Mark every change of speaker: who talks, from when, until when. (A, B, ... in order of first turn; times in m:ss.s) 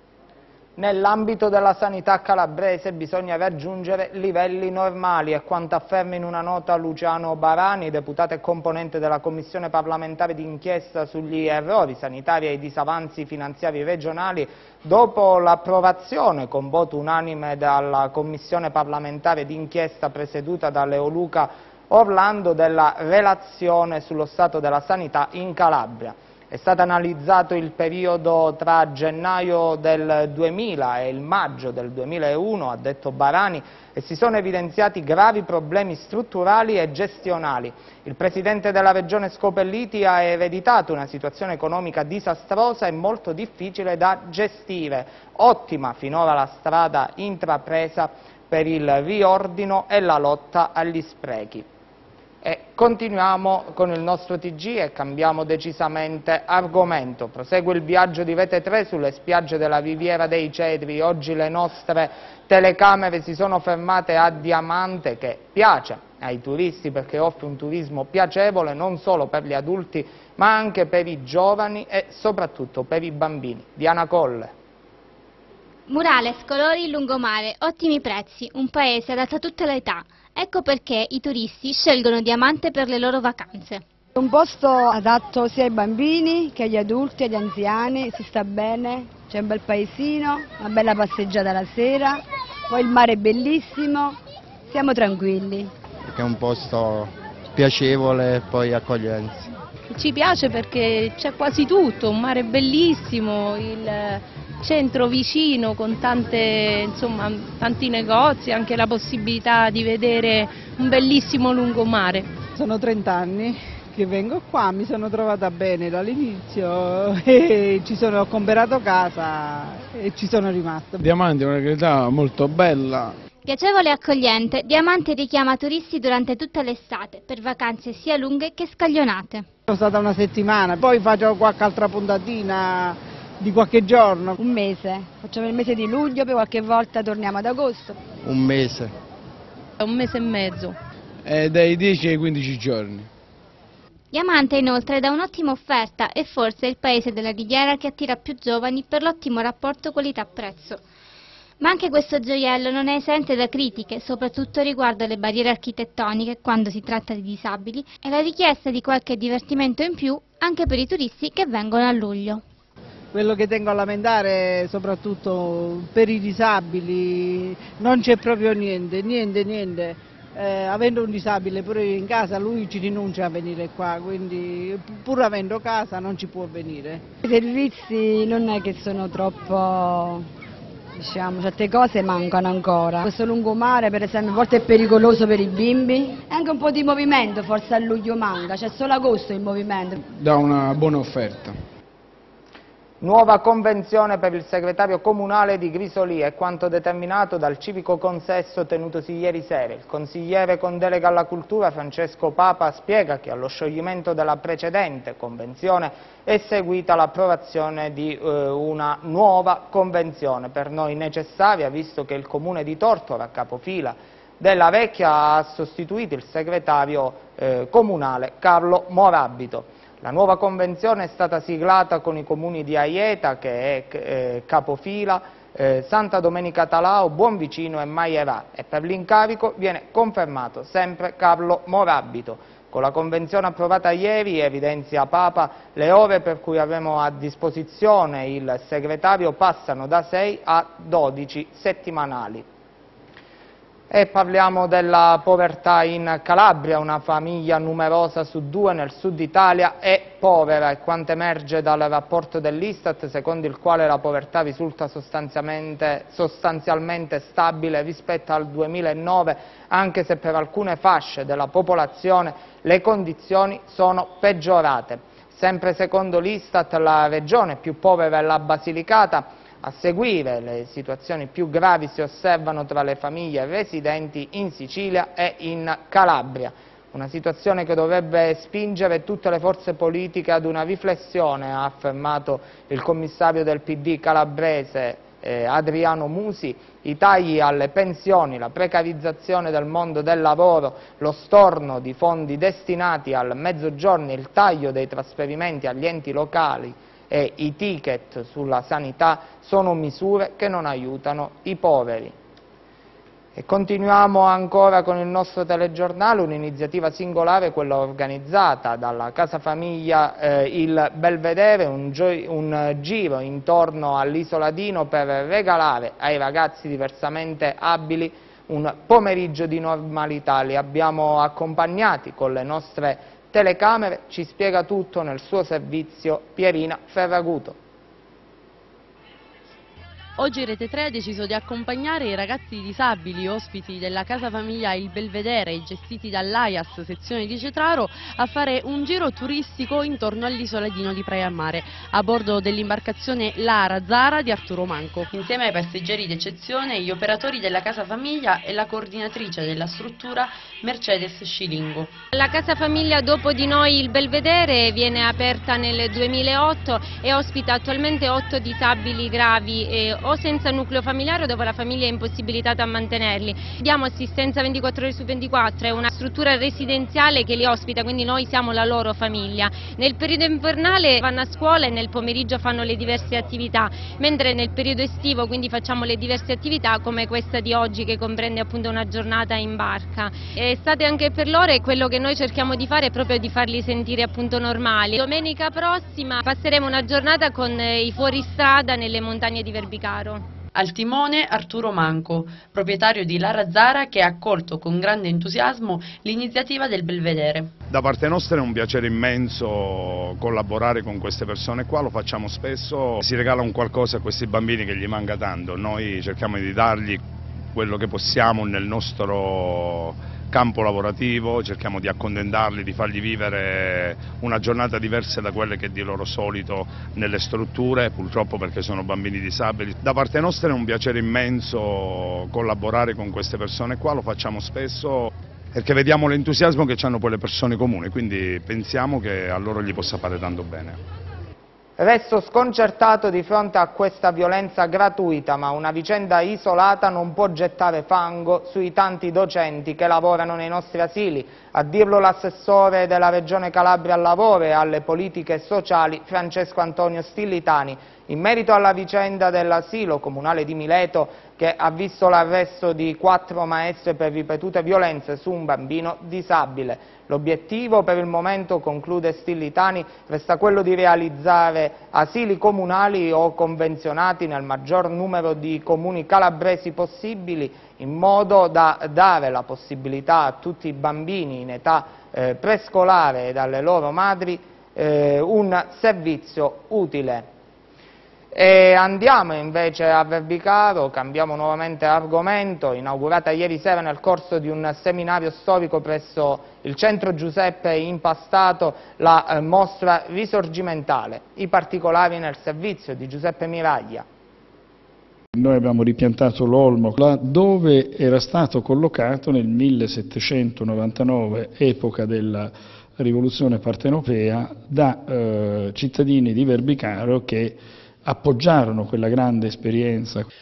0:00.8-0:51.6 A
0:52.4-1:14.5 A
1:15.9-1:23.8 B
1:24.2-1:34.2 C
1:34.7-1:35.7 C
1:36.0-1:39.5 D
1:39.9-1:52.3 E
1:52.6-2:01.0 F
2:01.0-2:03.1 G
2:03.4-2:09.4 B
2:09.7-2:14.3 F
2:14.4-2:18.0 C
2:18.2-2:18.9 D
2:19.8-2:20.8 E
2:21.2-2:23.1 G
2:24.1-2:30.8 B
2:31.6-2:42.4 B
2:43.1-2:57.0 F
2:57.2-3:00.3 C
3:01.0-3:10.0 C
3:10.0-3:11.6 G
3:13.0-4:02.4 A
4:03.9-5:02.1 A
5:03.3-5:27.6 A
5:30.2-5:51.9 H
5:52.1-6:30.3 I
6:30.5-6:37.5 H
6:37.7-7:10.8 J
7:11.8-7:57.3 A
7:58.3-8:14.0 A
8:15.3-8:30.3 K